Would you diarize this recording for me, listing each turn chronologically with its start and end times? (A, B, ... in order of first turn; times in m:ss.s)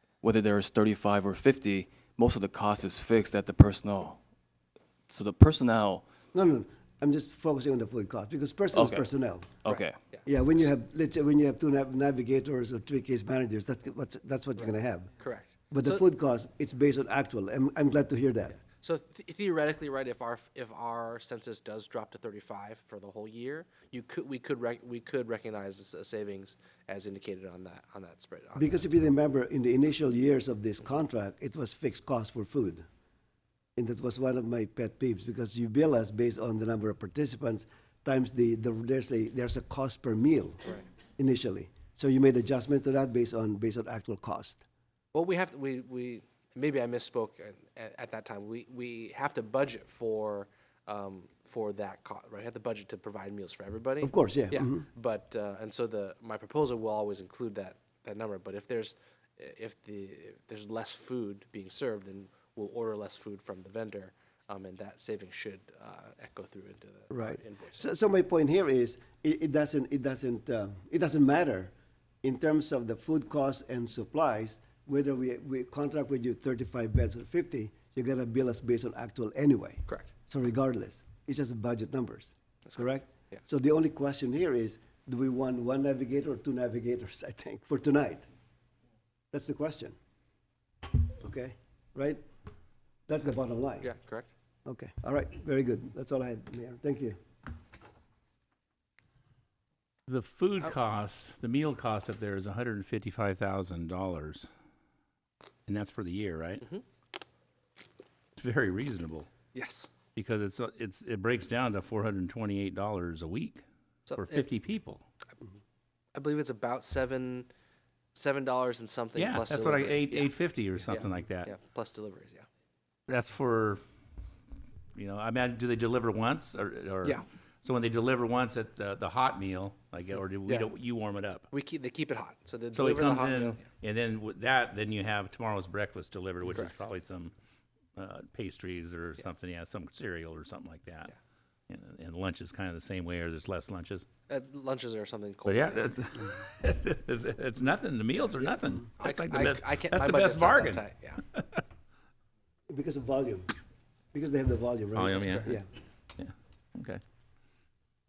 0:00.2-0:04.2 A
0:05.1-0:06.0 A
0:06.3-0:09.6 B
0:08.7-0:09.1 A
0:09.6-0:10.0 A
0:09.7-0:10.2 C
0:10.2-0:15.1 B
0:14.6-0:16.0 C
0:15.7-0:18.6 B
0:18.6-0:29.1 C
0:28.6-0:32.8 B
0:33.8-0:44.6 B
0:45.1-1:07.9 C
0:54.0-0:54.8 B
1:07.1-1:11.7 B
1:12.2-1:28.2 B
1:19.9-1:20.1 C
1:22.7-1:23.4 C
1:29.3-1:30.0 B
1:31.2-1:32.2 B
1:33.1-1:33.9 B
1:33.8-1:34.3 C
1:34.6-1:37.2 B
1:40.1-1:44.5 D
1:45.7-1:46.7 D
1:48.4-1:49.3 D
1:49.5-1:49.9 C
1:50.1-1:55.0 D
1:54.1-1:54.5 C
1:56.1-1:57.5 C
1:58.1-2:00.3 C
1:59.2-2:01.5 D
2:00.8-2:02.4 C
2:03.1-2:03.8 D
2:04.9-2:11.5 D
2:11.5-2:13.6 C
2:12.7-2:17.3 D
2:18.0-2:21.1 D
2:21.7-2:24.1 D
2:24.3-2:26.2 C
2:25.4-2:31.6 D
2:29.0-2:31.2 C
2:32.7-2:33.5 B
2:34.1-2:35.6 B
2:34.9-2:35.6 D
2:35.2-2:35.5 C
2:36.2-2:37.0 D